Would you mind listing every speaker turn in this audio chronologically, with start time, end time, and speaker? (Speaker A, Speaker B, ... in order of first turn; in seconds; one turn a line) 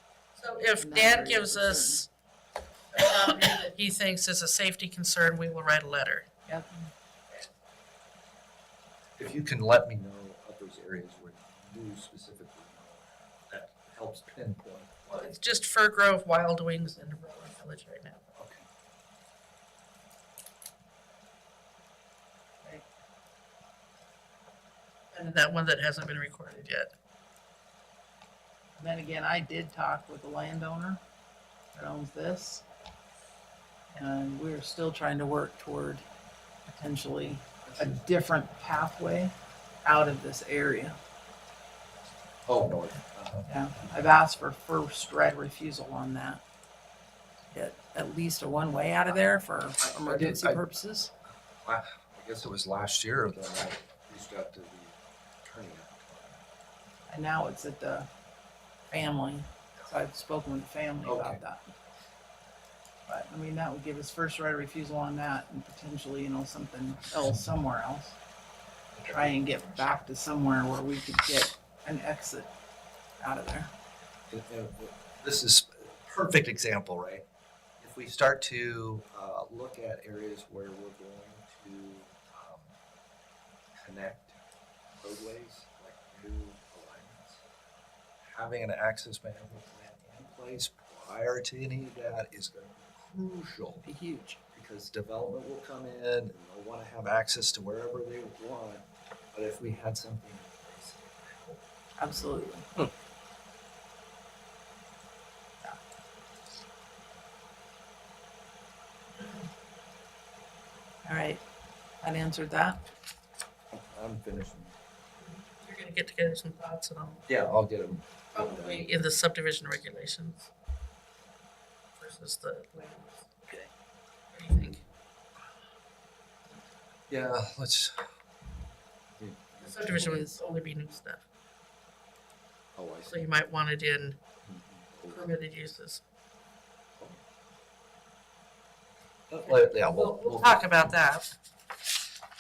Speaker A: 0.4-2.1
Speaker B: 0.8-2.0
Speaker A: 2.9-6.3
Speaker B: 6.5-6.9
Speaker C: 9.2-15.3
Speaker A: 15.1-18.2
Speaker C: 18.4-18.7
Speaker A: 25.1-26.9
Speaker B: 28.8-31.0
Speaker B: 31.7-32.6
Speaker B: 33.9-36.0
Speaker B: 36.7-39.3
Speaker B: 39.8-41.0
Speaker C: 42.5-43.5
Speaker B: 43.5-46.4
Speaker B: 47.5-51.1
Speaker C: 49.8-50.6
Speaker C: 51.6-56.4
Speaker B: 57.1-58.1
Speaker B: 58.9-61.7
Speaker C: 61.0-61.4
Speaker B: 63.1-68.2
Speaker C: 69.0-69.4
Speaker B: 69.1-72.5
Speaker B: 73.2-73.7
Speaker C: 74.3-77.2
Speaker C: 77.8-82.7
Speaker C: 83.8-84.4
Speaker C: 85.0-87.4
Speaker C: 88.2-93.8
Speaker B: 93.8-94.4
Speaker C: 94.5-101.6
Speaker B: 102.0-102.7
Speaker B: 111.0-111.4
Speaker B: 112.0-112.8
Speaker C: 113.7-114.8
Speaker A: 115.3-117.2
Speaker C: 117.3-118.9
Speaker A: 118.3-120.5
Speaker A: 122.0-123.3
Speaker A: 124.3-124.8
Speaker C: 127.1-128.1
Speaker C: 129.2-130.3
Speaker A: 129.6-131.2
Speaker C: 132.8-133.2
Speaker A: 133.0-134.2
Speaker C: 134.4-135.3
Speaker A: 135.1-136.0
Speaker C: 139.3-140.6
Speaker A: 139.5-141.3